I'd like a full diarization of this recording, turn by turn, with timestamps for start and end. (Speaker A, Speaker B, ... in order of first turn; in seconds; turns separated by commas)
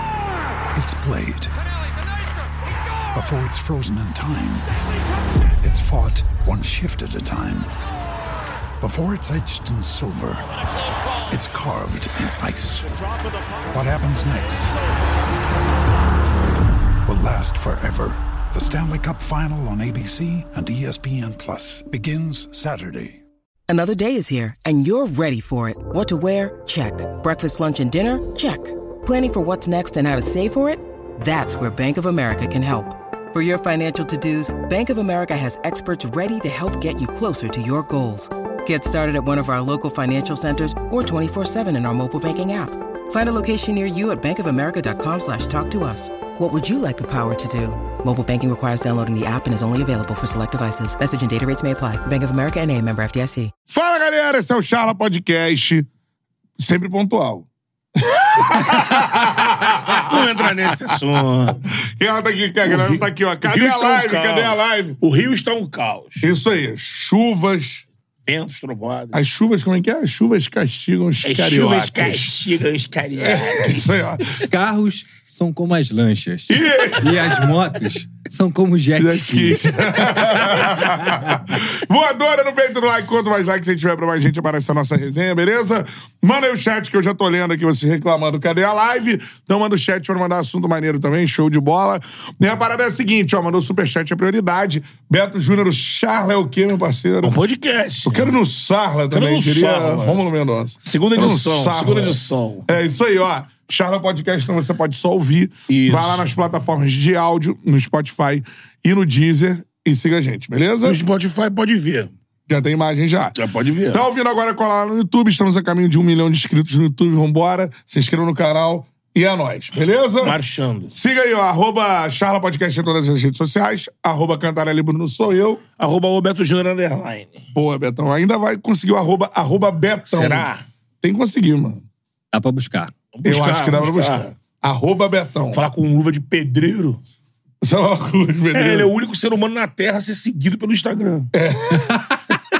Speaker A: 0.7-1.5, Speaker A: 3.1-4.8, Speaker A: 5.6-7.8, Speaker A: 8.8-10.5, Speaker A: 11.3-13.0, Speaker A: 13.7-14.8, Speaker A: 17.0-23.2, Speaker B: 23.7-53.5, Speaker C: 53.7-55.9, Speaker C: 56.6-61.0, Speaker D: 60.0-61.6, Speaker C: 62.0-65.0, Speaker D: 62.6-66.3, Speaker C: 66.2-67.8, Speaker D: 68.3-69.2, Speaker C: 69.1-72.4, Speaker D: 71.2-74.1, Speaker C: 73.2-74.2, Speaker E: 74.5-81.6, Speaker D: 76.5-77.0, Speaker C: 79.0-97.4, Speaker D: 97.2-98.3, Speaker C: 98.0-111.0, Speaker D: 99.1-100.2, Speaker D: 100.8-102.7, Speaker D: 105.7-106.2, Speaker D: 110.8-112.1, Speaker C: 112.5-113.4, Speaker D: 113.4-114.0, Speaker C: 113.9-120.4, Speaker D: 120.2-120.9, Speaker C: 120.9-125.6, Speaker D: 125.8-127.4, Speaker C: 127.5-130.5, Speaker D: 130.1-130.6, Speaker C: 131.0-131.8, Speaker E: 132.3-132.9, Speaker D: 133.2-134.3, Speaker C: 133.2-135.6, Speaker D: 135.5-137.0, Speaker C: 137.6-138.9, Speaker D: 138.5-141.3, Speaker C: 141.3-142.0